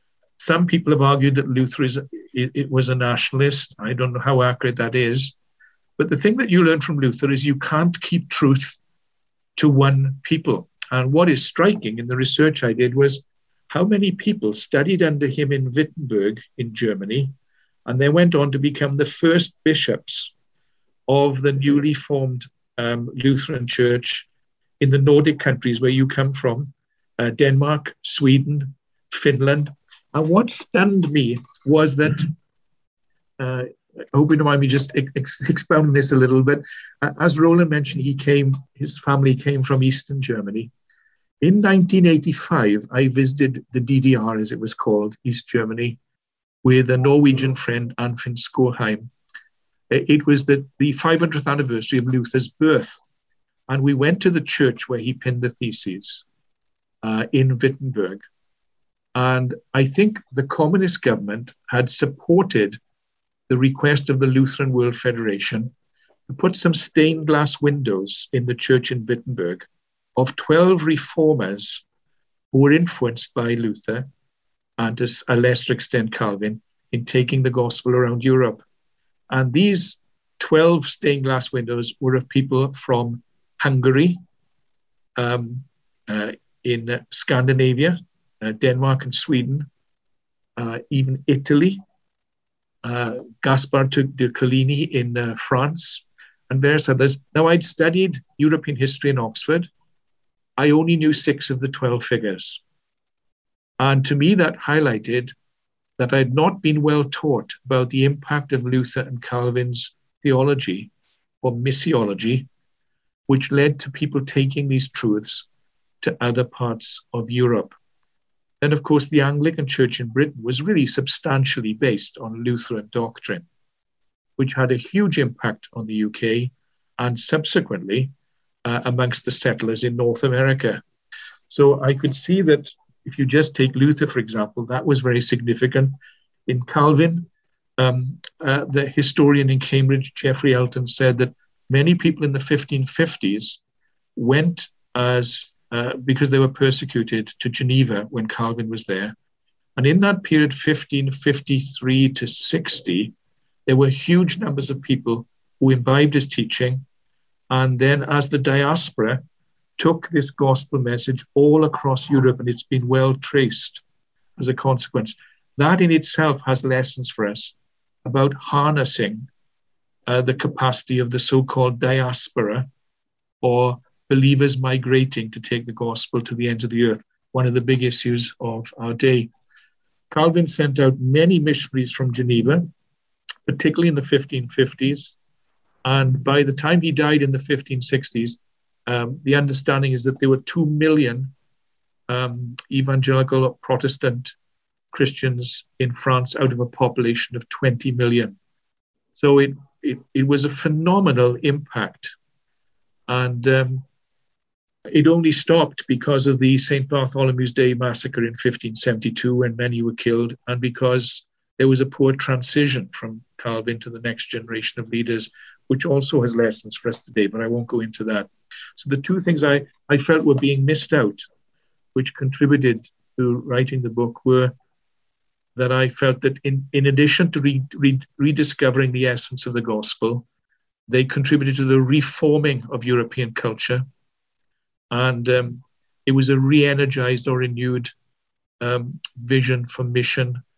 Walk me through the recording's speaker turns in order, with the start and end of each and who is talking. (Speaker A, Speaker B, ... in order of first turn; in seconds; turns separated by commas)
Speaker A: 0.4-5.3, Speaker A: 6.0-8.8, Speaker A: 9.6-17.3, Speaker A: 17.9-20.3, Speaker A: 21.1-24.3, Speaker A: 24.8-32.3, Speaker A: 33.4-40.7, Speaker A: 41.4-46.0, Speaker A: 46.6-49.1, Speaker A: 49.9-53.0, Speaker A: 53.7-56.2, Speaker A: 57.0-58.2, Speaker A: 59.1-62.8, Speaker A: 63.5-65.7, Speaker A: 66.3-71.8, Speaker A: 72.5-74.1, Speaker A: 74.8-78.6, Speaker A: 79.3-84.2, Speaker A: 85.2-89.7, Speaker A: 90.6-91.8, Speaker A: 92.8-99.7, Speaker A: 100.6-102.6, Speaker A: 103.8-105.3, Speaker A: 106.0-110.9, Speaker A: 111.4-112.5, Speaker A: 113.3-115.5, Speaker A: 116.0-117.7, Speaker A: 118.6-123.5, Speaker A: 124.4-128.1, Speaker A: 128.7-130.8, Speaker A: 131.5-136.0, Speaker A: 136.5-143.6, Speaker A: 144.2-149.2, Speaker A: 149.8-153.2, Speaker A: 153.7-156.8, Speaker A: 157.5-159.2, Speaker A: 159.8-163.8, Speaker A: 164.4-169.3, Speaker A: 170.1-172.7, Speaker A: 173.4-179.3, Speaker A: 180.1-182.7, Speaker A: 183.5-185.2, Speaker A: 185.8-191.3, Speaker A: 192.1-194.3, Speaker A: 194.9-198.4, Speaker A: 199.2-202.1, Speaker A: 203.1-203.8, Speaker A: 204.9-221.2, Speaker A: 221.9-224.5, Speaker A: 225.6-230.3, Speaker A: 230.9-233.9, Speaker A: 234.9-237.9, Speaker A: 238.6-240.4